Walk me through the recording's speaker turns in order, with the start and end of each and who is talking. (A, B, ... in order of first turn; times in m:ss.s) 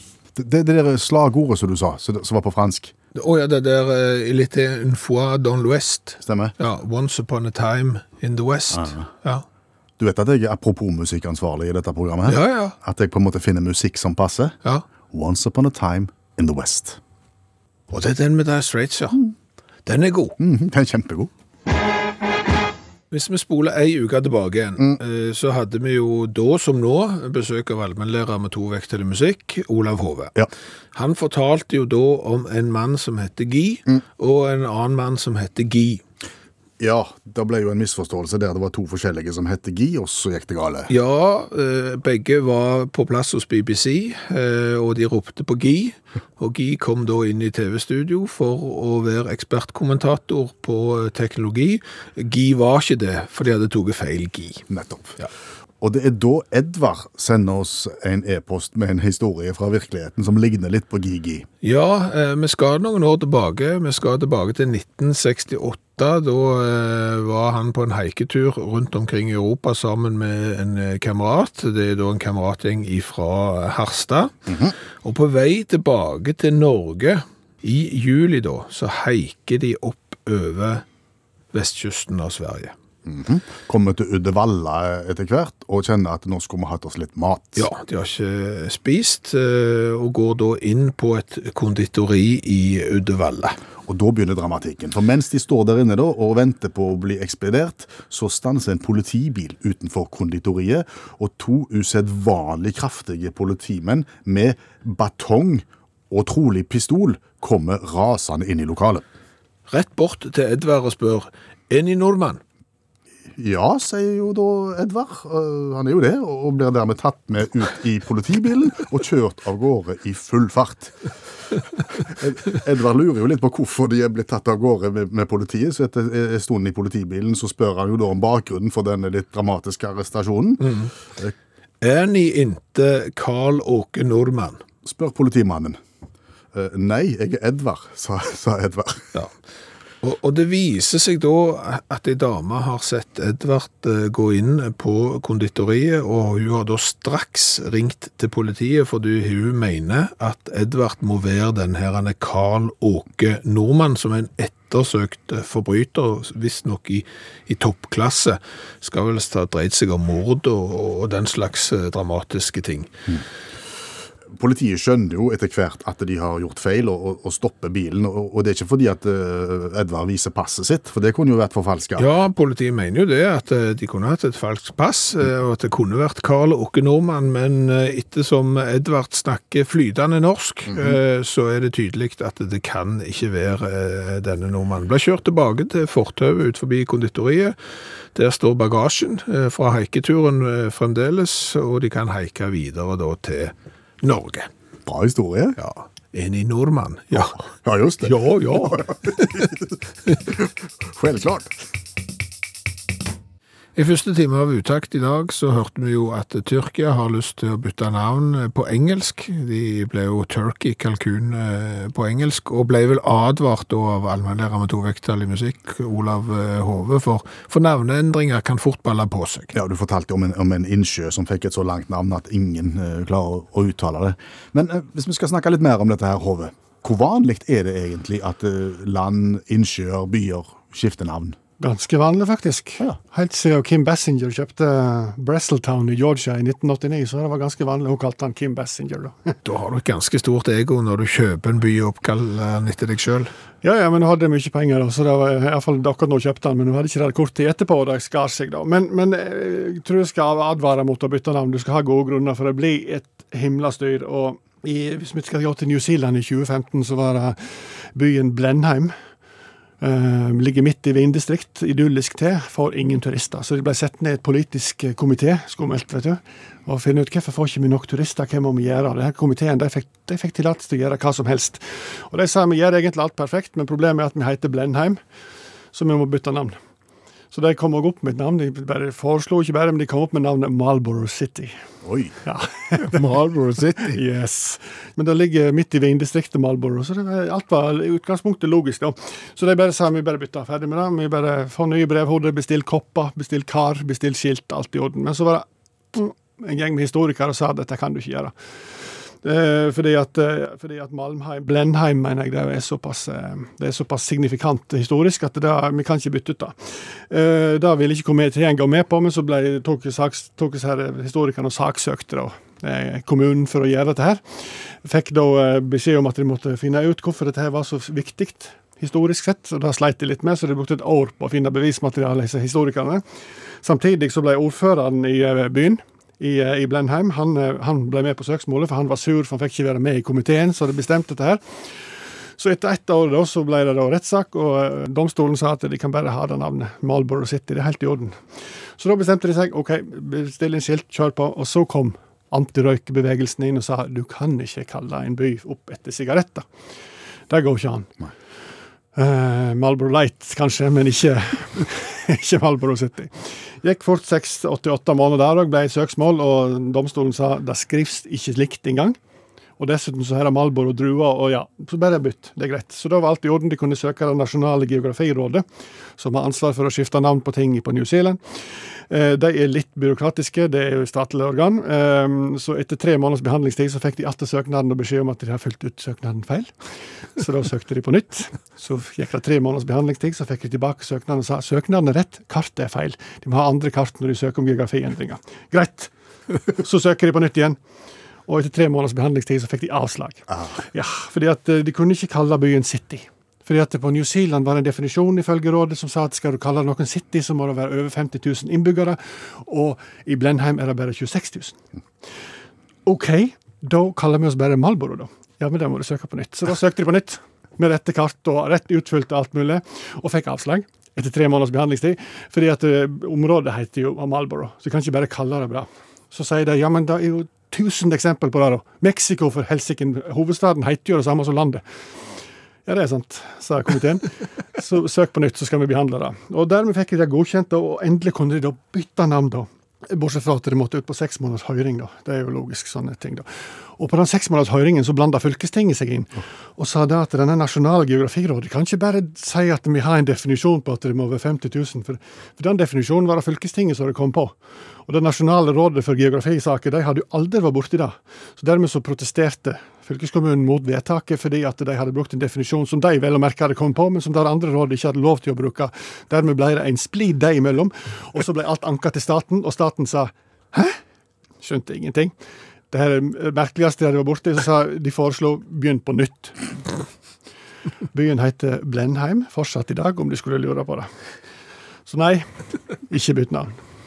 0:00.3-0:02.9 A
0:03.1-0:09.4 B
0:06.2-0:06.5 A
0:08.7-0:09.1 A
0:10.0-0:14.5 A
0:12.2-0:12.8 B
0:15.1-0:17.0 A
0:17.9-0:19.2 B
0:19.8-0:20.4 B
0:20.4-0:21.3 A
0:23.1-0:30.4 B
0:30.9-0:36.0 B
0:36.8-0:40.9 A
0:40.9-0:54.6 B
0:54.7-0:55.2 A
0:55.8-1:01.5 A
1:01.6-1:20.8 B
1:14.5-1:14.7 A
1:21.5-1:22.7 B
1:23.0-1:27.7 A
1:27.6-1:33.6 B
1:33.8-1:49.0 A
1:49.7-1:52.4 B
1:53.4-2:01.1 A
2:02.0-2:11.3 A
2:10.6-2:10.9 B
2:11.8-2:14.6 B
2:14.8-2:15.8 A
2:16.5-2:19.1 A
2:20.0-2:42.9 B
2:44.3-2:52.1 A
2:52.0-3:07.6 B
3:00.7-3:01.0 A
3:08.1-3:14.5 B
3:14.8-3:15.6 A
3:15.6-3:17.4 B
3:17.2-3:19.6 A
3:18.0-3:19.5 B
3:20.3-3:21.5 A
3:23.8-3:39.5 B
3:39.5-3:51.4 A
3:51.6-3:59.3 C
3:59.4-4:03.3 B
4:03.6-4:18.9 C
4:19.8-4:35.0 C
4:35.7-4:36.6 C
4:37.3-4:41.5 C
4:41.8-4:42.1 A
4:42.2-4:43.0 C
4:42.7-4:44.0 B
4:43.9-4:58.3 C
4:59.2-5:23.0 C
5:23.6-5:31.4 C
5:32.4-5:46.4 C
5:47.3-5:47.9 C
5:49.0-5:59.0 C
5:59.6-6:05.4 C
6:06.0-6:16.5 C
6:17.2-6:25.9 C
6:26.5-6:27.6 C
6:28.3-6:41.6 C
6:42.8-7:01.6 C
7:02.6-7:40.8 C
7:41.4-7:42.1 C
7:42.7-7:46.5 C
7:47.9-7:50.9 C
7:51.9-7:52.2 C
7:52.9-7:53.6 C